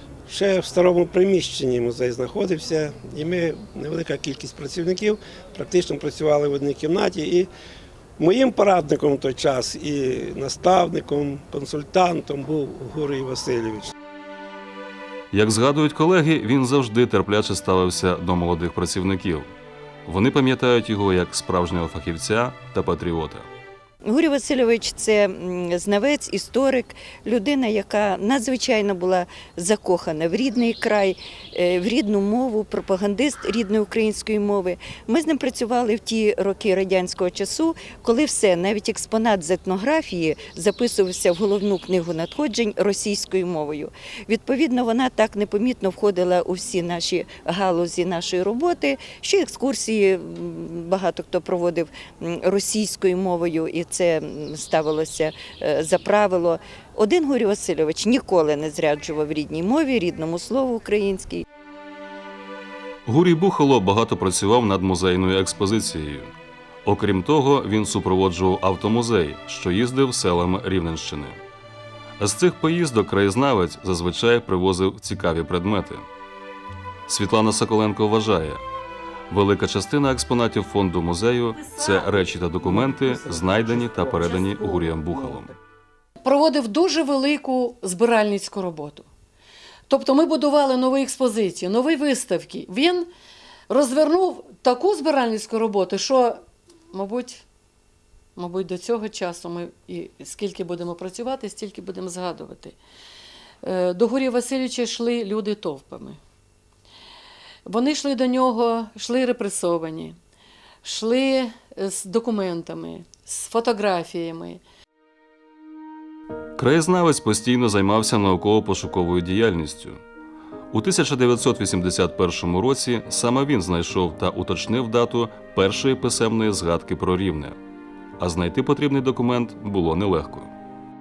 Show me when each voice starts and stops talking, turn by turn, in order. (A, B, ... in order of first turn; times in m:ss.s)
0:00.3-0:07.5 A
0:08.2-0:13.9 A
0:15.3-0:19.5 B
0:20.1-0:23.5 B
0:24.0-1:01.4 C
1:03.1-1:06.3 B
1:06.8-1:11.4 B
1:12.2-1:16.1 B
1:17.1-1:18.6 B
1:19.3-1:25.5 B
1:26.2-1:29.1 D
1:29.9-1:33.1 D
1:33.7-1:37.4 D
1:38.4-1:42.8 D
1:43.6-1:46.2 D
1:47.7-1:50.2 D
1:50.8-1:54.6 D
1:56.6-2:00.0 B
2:00.7-2:07.6 B
2:08.2-2:10.5 B